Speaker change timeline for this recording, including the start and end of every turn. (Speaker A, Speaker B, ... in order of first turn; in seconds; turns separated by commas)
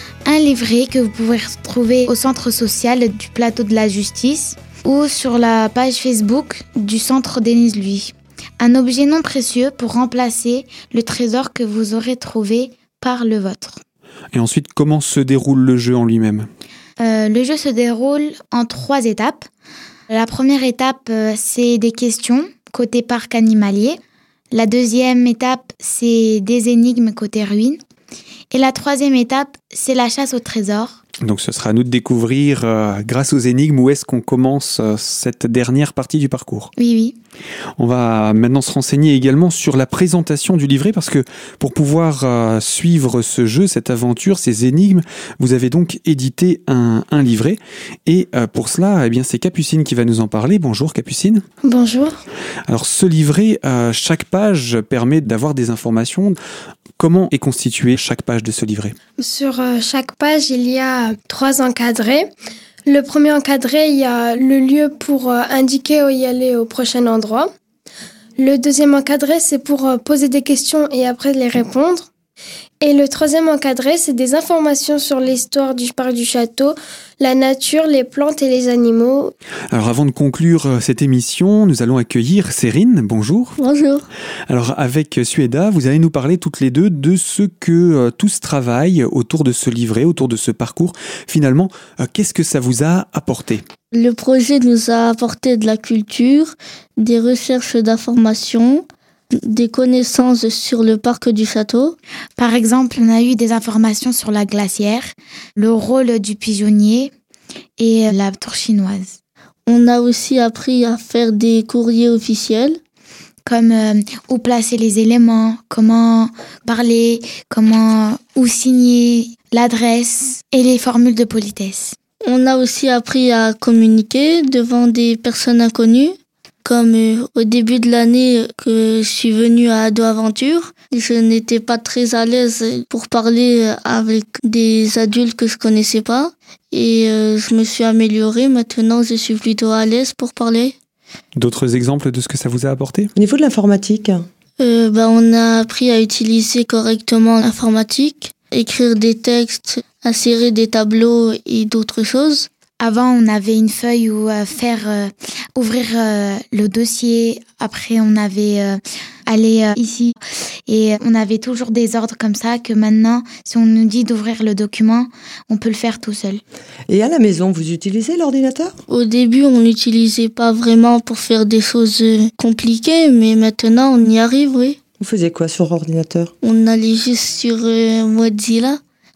Speaker A: 0.3-13.8, Speaker B: 14.3-16.5, Speaker A: 17.0-19.5, Speaker A: 20.1-24.0, Speaker A: 24.5-27.8, Speaker A: 28.5-31.0, Speaker B: 31.2-36.7, Speaker A: 36.8-37.1, Speaker B: 37.8-51.4, Speaker C: 51.6-52.2, Speaker B: 52.7-56.4, Speaker B: 57.0-59.0, Speaker C: 59.2-62.3, Speaker C: 62.9-67.5, Speaker C: 68.4-72.1, Speaker C: 72.8-79.3, Speaker B: 79.7-83.6, Speaker D: 83.6-84.1, Speaker B: 84.5-93.6, Speaker D: 93.9-98.8, Speaker D: 99.5-102.0, Speaker A: 102.4-107.1, Speaker A: 107.8-109.2, Speaker D: 109.7-112.8, Speaker A: 113.5-122.0, Speaker D: 122.3-126.1, Speaker D: 126.7-140.7, Speaker B: 141.3-143.1, Speaker E: 143.2-144.2, Speaker D: 144.6-152.5, Speaker A: 152.8-160.2, Speaker A: 160.7-166.4, Speaker E: 166.9-168.7, Speaker D: 168.9-174.8, Speaker E: 175.0-176.3, Speaker D: 176.4-178.8